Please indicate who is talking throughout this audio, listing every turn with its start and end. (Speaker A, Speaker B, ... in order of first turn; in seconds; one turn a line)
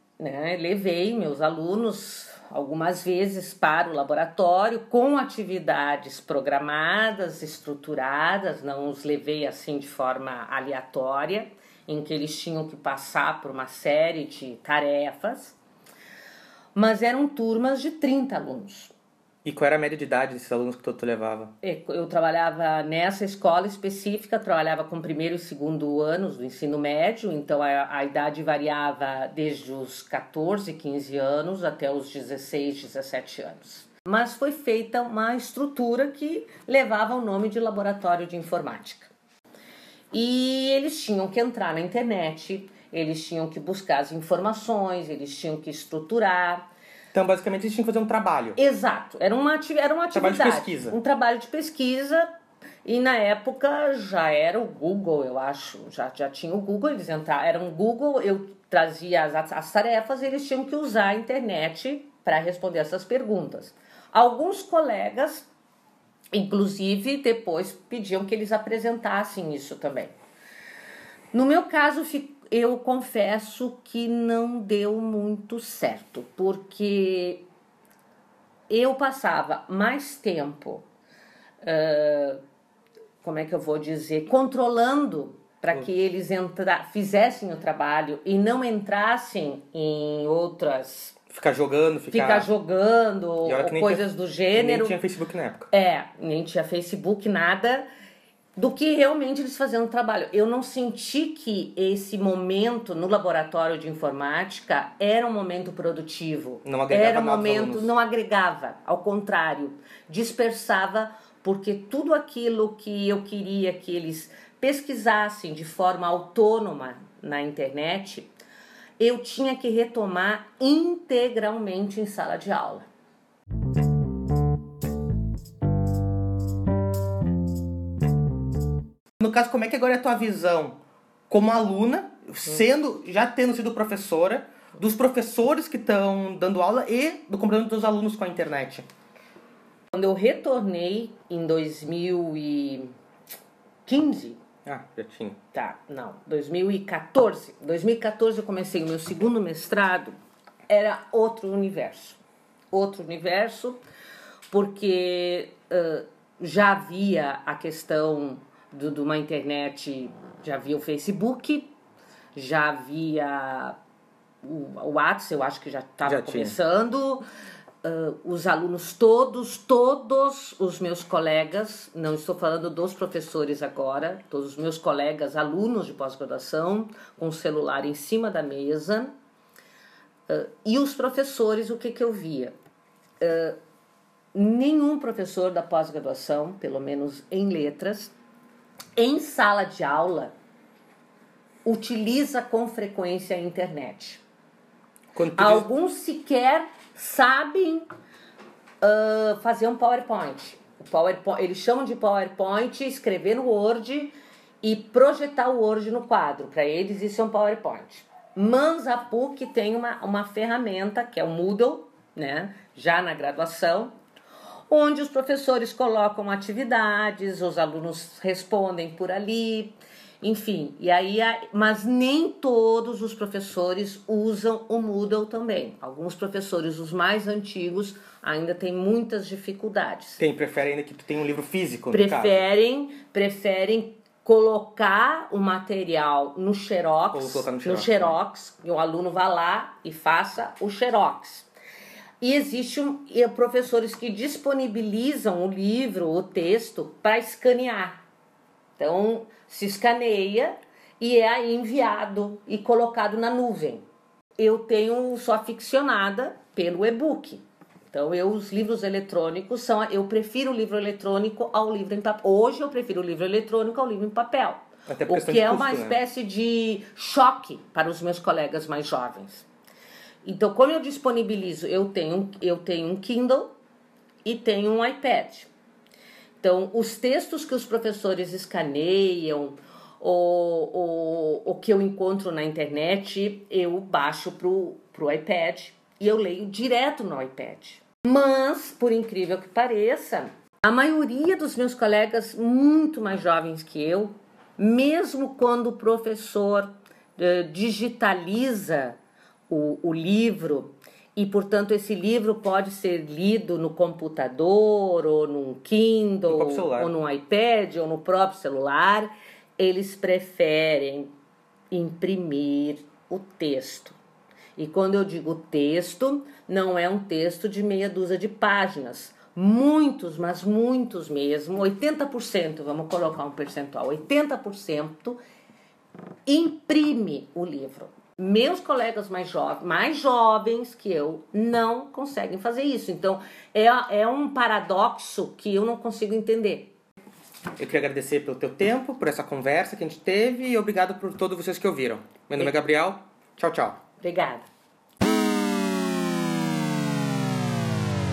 Speaker A: 0.2-15.6
Speaker A: 16.7-18.9
Speaker B: 19.4-21.5
Speaker A: 21.6-39.1
Speaker A: 40.1-46.7
Speaker B: 47.1-48.6
Speaker A: 48.6-52.3
Speaker B: 50.1-51.0
Speaker A: 52.8-65.5
Speaker A: 66.3-70.1
Speaker A: 71.3-77.4
Speaker A: 78.7-80.8
Speaker A: 81.6-82.4
Speaker A: 83.2-91.2
Speaker B: 91.3-92.5
Speaker A: 92.1-95.0
Speaker B: 93.5-95.7
Speaker A: 95.7-97.9
Speaker A: 98.6-118.3
Speaker B: 106.6-107.9
Speaker A: 119.0-122.9
Speaker B: 129.2-130.8
Speaker B: 131.3-138.9
Speaker A: 139.9-142.9
Speaker A: 143.8-144.4
Speaker B: 144.7-145.4
Speaker A: 145.5-150.1
Speaker A: 150.7-152.2
Speaker A: 152.7-153.8
Speaker A: 154.5-161.7
Speaker A: 162.3-163.8
Speaker A: 164.4-167.2
Speaker B: 166.0-166.5
Speaker A: 167.8-179.1
Speaker A: 180.3-182.6
Speaker A: 183.2-183.6
Speaker A: 184.3-188.1
Speaker A: 188.9-190.3
Speaker A: 191.6-194.2
Speaker B: 195.1-195.7
Speaker A: 195.3-197.8
Speaker A: 198.8-213.9
Speaker A: 214.7-230.2
Speaker B: 230.2-232.4
Speaker A: 231.9-241.5
Speaker B: 237.1-238.2
Speaker A: 242.2-248.0
Speaker A: 248.8-253.8
Speaker A: 254.4-269.5
Speaker B: 264.9-266.0
Speaker A: 270.2-273.5
Speaker A: 274.2-275.5
Speaker A: 276.4-299.0
Speaker A: 299.5-311.1
Speaker B: 306.3-306.9
Speaker A: 311.7-314.0
Speaker A: 314.6-325.2
Speaker A: 326.2-336.7
Speaker B: 337.6-343.8
Speaker A: 344.0-344.4